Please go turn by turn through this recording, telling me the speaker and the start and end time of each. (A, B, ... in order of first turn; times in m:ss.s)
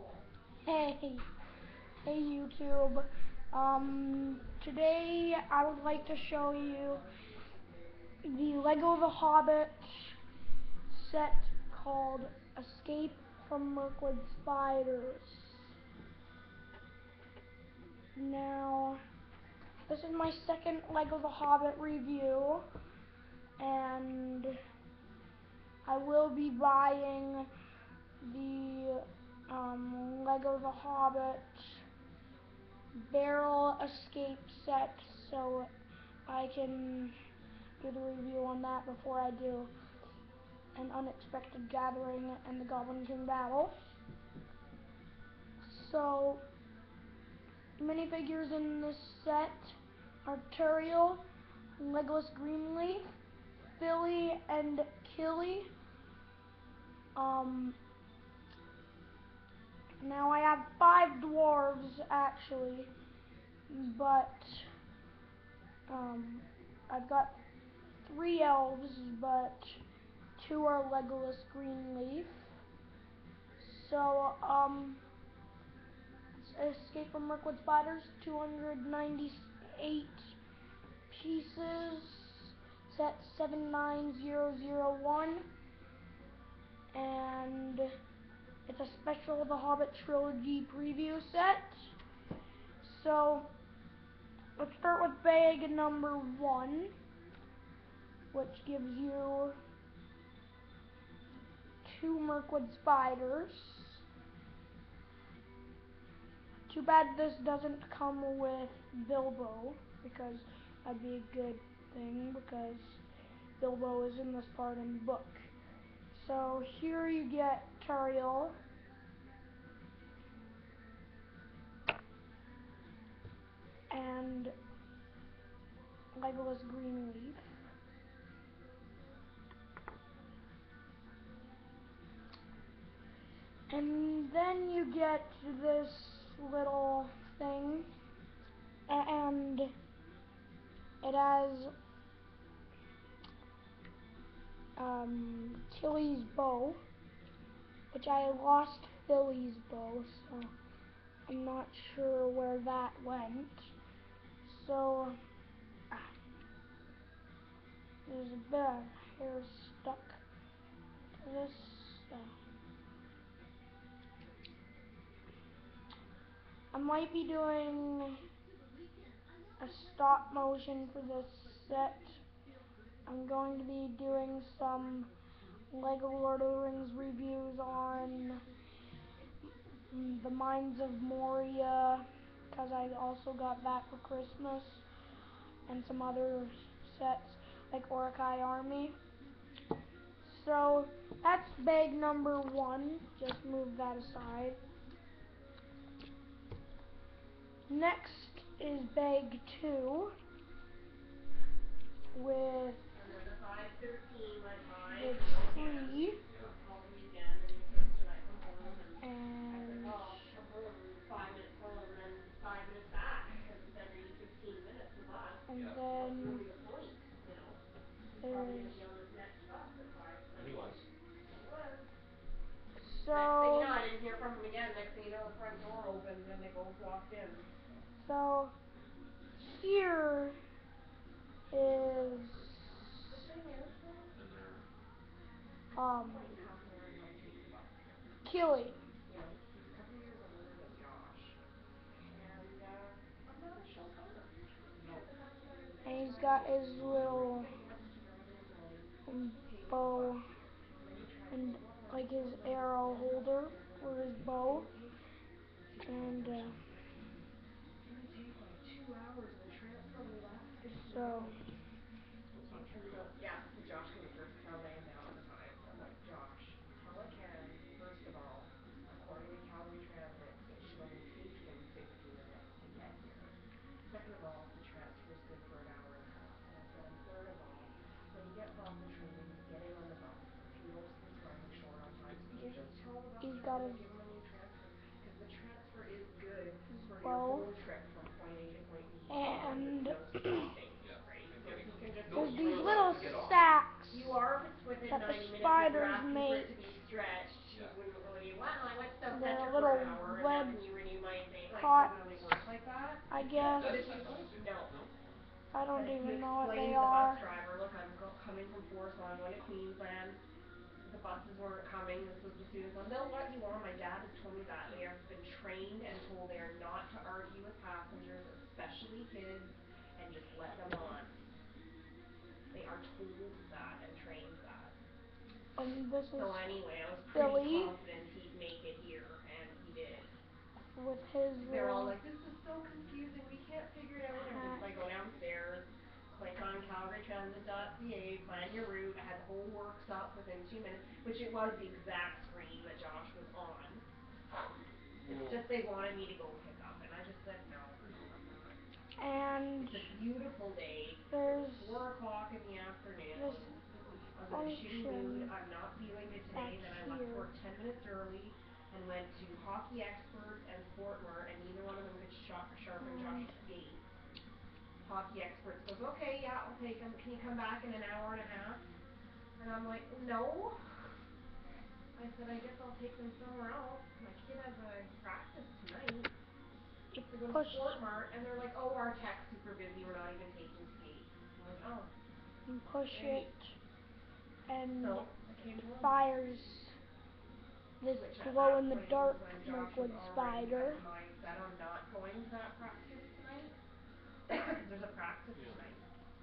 0:00.6-0:01.2 A
0:02.0-0:07.0 A
0:08.2-0:10.2 A
0:10.9-0:15.7 A
0:18.2-0:19.0 A
0:19.9-0:22.6 A
0:23.6-0:24.6 A
0:25.8-0:27.5 A
0:28.2-0:31.8 A
0:33.0-0:35.7 A
0:36.2-0:37.1 A
0:37.8-0:39.7 A
0:40.7-0:43.8 A
0:45.6-0:46.4 A
0:47.8-0:51.2 A
0:51.8-0:53.0 A
0:53.8-0:55.7 A
0:57.1-0:57.8 A
1:00.0-1:02.9 A
1:03.7-1:04.7 A
1:05.9-1:07.4 A
1:08.0-1:09.8 A
1:10.4-1:12.5 A
1:13.6-1:15.0 A
1:16.4-1:20.3 A
1:21.1-1:25.4 A
1:26.9-1:27.9 A
1:28.7-1:31.9 A
1:32.8-1:33.5 A
1:34.6-1:36.9 A
1:38.3-1:39.6 A
1:41.8-1:44.0 A
1:46.7-1:53.0 A
1:53.6-1:55.5 A
1:56.1-1:58.6 A
2:03.9-2:04.5 A
2:06.1-2:07.4 A
2:13.7-2:17.9 A
2:18.9-2:19.7 A
2:21.0-2:21.7 A
2:24.8-2:26.8 A
2:27.9-2:30.5 A
2:31.2-2:33.7 A
2:34.4-2:35.2 A
2:38.0-2:40.2 A
2:41.2-2:42.3 A
2:46.7-2:48.2 A
2:49.6-2:52.2 A
2:53.0-2:55.1 A
2:55.7-2:58.4 A
2:59.9-3:04.8 A
3:05.7-3:09.0 A
3:10.2-3:14.6 A
3:17.7-3:20.1 A
3:22.1-3:22.8 A
3:22.9-3:41.9 B
3:24.9-3:26.2 A
3:26.2-3:26.6 C
3:29.0-3:30.3 A
3:35.5-3:36.4 A
3:35.5-3:35.8 C
3:38.2-3:38.8 A
3:40.4-3:40.8 C
3:42.8-3:43.8 A
3:43.1-3:47.5 B
3:48.0-3:48.5 A
3:49.4-3:50.4 A
3:51.5-3:53.0 A
3:51.6-3:52.8 C
3:53.0-3:54.2 B
3:54.1-3:54.6 C
3:55.7-3:56.3 A
3:55.9-3:58.2 B
3:58.2-3:58.8 A
3:59.0-4:01.4 B
4:02.1-4:14.9 B
4:04.8-4:05.1 C
4:05.8-4:07.5 A
4:06.7-4:07.4 C
4:09.0-4:10.2 A
4:11.3-4:14.7 A
4:15.6-4:16.8 B
4:15.8-4:16.6 A
4:17.8-4:21.4 B
4:20.8-4:21.3 A
4:22.3-4:23.1 C
4:22.5-4:33.3 B
4:33.8-4:53.3 B
4:43.2-4:43.8 A
4:46.7-4:47.5 A
4:49.1-4:50.0 A
4:50.8-4:53.4 C
4:52.1-4:54.2 A
4:53.9-5:04.8 B
4:54.9-4:56.6 A
4:57.5-4:57.8 C
4:59.1-5:00.7 A
5:01.5-5:02.0 A
5:03.1-5:03.9 A
5:03.3-5:05.0 C
5:05.5-5:07.3 A
5:05.7-5:10.2 B
5:10.8-5:21.1 B
5:22.5-5:24.7 B
5:25.6-5:26.6 A
5:26.1-5:30.1 B
5:27.1-5:27.7 A
5:30.8-5:32.0 A
5:31.4-5:43.8 B
5:34.1-5:34.7 A
5:45.0-5:48.6 B
5:45.0-5:45.5 C
5:49.0-5:49.9 A
5:49.6-5:53.6 B
5:51.1-5:51.8 A
5:53.1-5:53.5 A
5:54.1-6:03.8 B
5:54.3-5:55.3 A
5:56.3-5:57.3 A
6:02.8-6:03.3 A
6:04.8-6:08.6 B
6:09.4-6:10.6 B
6:11.9-6:16.1 B
6:16.9-6:21.9 B
6:17.2-6:17.8 A
6:22.5-6:23.5 A
6:22.9-6:23.3 B
6:24.5-6:25.1 A
6:24.7-6:26.0 B
6:25.8-6:26.7 A
6:27.8-6:30.8 A
6:27.9-6:33.5 B
6:34.3-6:35.8 B
6:35.3-6:35.6 C